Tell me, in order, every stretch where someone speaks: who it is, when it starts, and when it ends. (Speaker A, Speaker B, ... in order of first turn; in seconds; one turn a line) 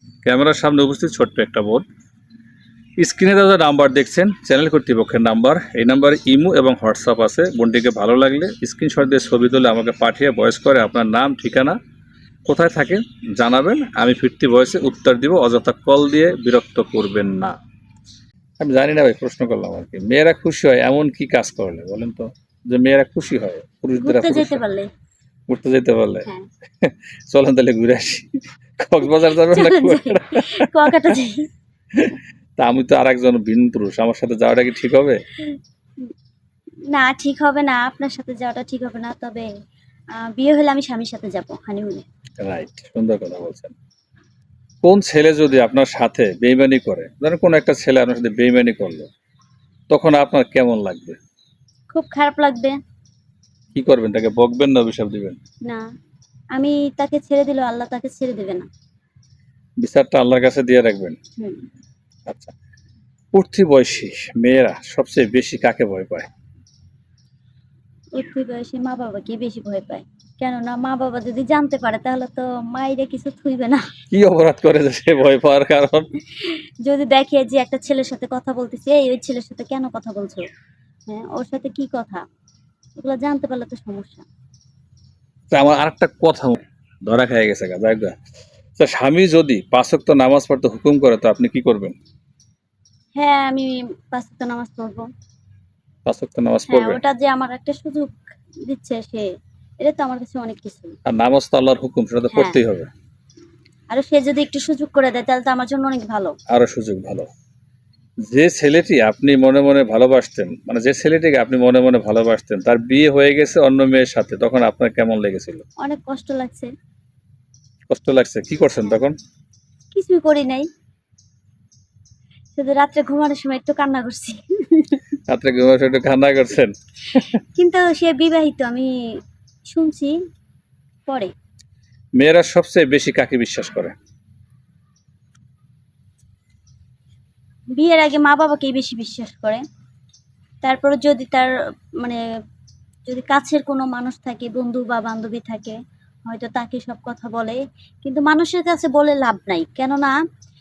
Speaker A: 0.2-1.9
Speaker A: 3.0-11.8
Speaker A: 12.5-17.6
Speaker A: 18.6-24.6
Speaker B: 24.0-24.9
Speaker A: 25.5-26.3
Speaker A: 26.8-31.1
Speaker B: 29.2-31.5
Speaker A: 32.0-35.2
Speaker B: 36.9-39.5
Speaker B: 40.1-42.1
Speaker A: 42.4-43.7
Speaker A: 44.8-49.1
Speaker A: 49.9-51.2
Speaker B: 51.9-52.8
Speaker A: 53.8-55.4
Speaker B: 56.6-58.7
Speaker A: 59.8-61.2
Speaker A: 62.3-62.5
Speaker A: 63.3-66.3
Speaker B: 68.2-73.8
Speaker A: 74.1-76.1
Speaker B: 76.4-80.5
Speaker B: 81.1-82.2
Speaker B: 83.0-84.2
Speaker A: 85.5-88.2
Speaker A: 88.8-92.0
Speaker B: 93.2-95.1
Speaker A: 96.1-97.0
Speaker B: 96.7-98.2
Speaker B: 98.7-99.3
Speaker B: 99.8-101.0
Speaker A: 101.1-102.9
Speaker B: 103.9-106.4
Speaker A: 106.5-107.3
Speaker A: 108.3-115.6
Speaker B: 115.8-116.7
Speaker A: 117.9-119.2
Speaker B: 119.9-120.7
Speaker B: 122.6-125.0
Speaker A: 125.3-127.3
Speaker B: 127.5-128.9
Speaker B: 129.7-130.1
Speaker A: 132.2-134.0
Speaker B: 137.8-139.6
Speaker B: 140.6-142.2
Speaker B: 143.1-150.1